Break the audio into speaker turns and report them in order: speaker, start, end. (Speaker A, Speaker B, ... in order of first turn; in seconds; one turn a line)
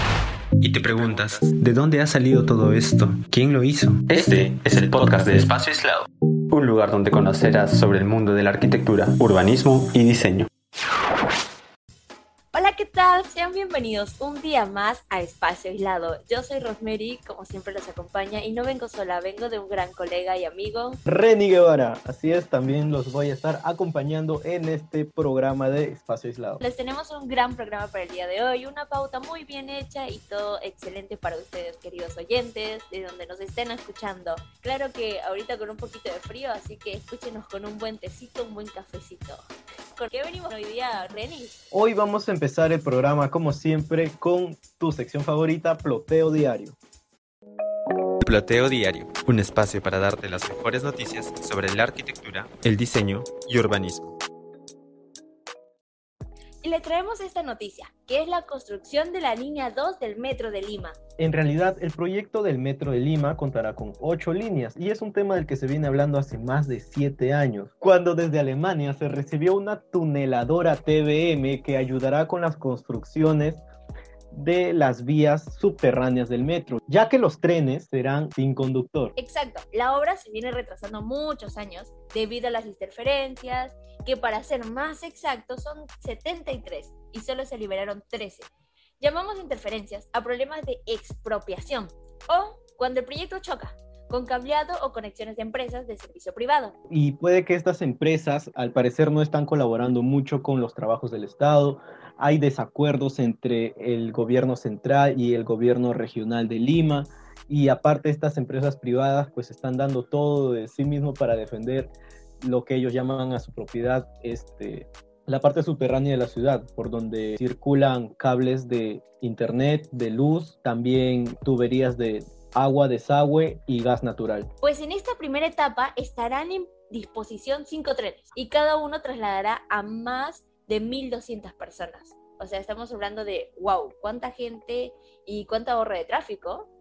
Speaker A: 0.6-10.5
Speaker B: 12.5-21.0
Speaker C: 21.1-26.6
Speaker B: 26.6-39.4
Speaker B: 40.0-41.6
Speaker C: 41.7-46.8
Speaker A: 48.2-54.1
Speaker B: 56.6-61.0
Speaker C: 61.2-73.6
Speaker C: 74.3-79.1
Speaker B: 79.2-96.8
Speaker C: 96.9-124.5
Speaker B: 124.6-136.7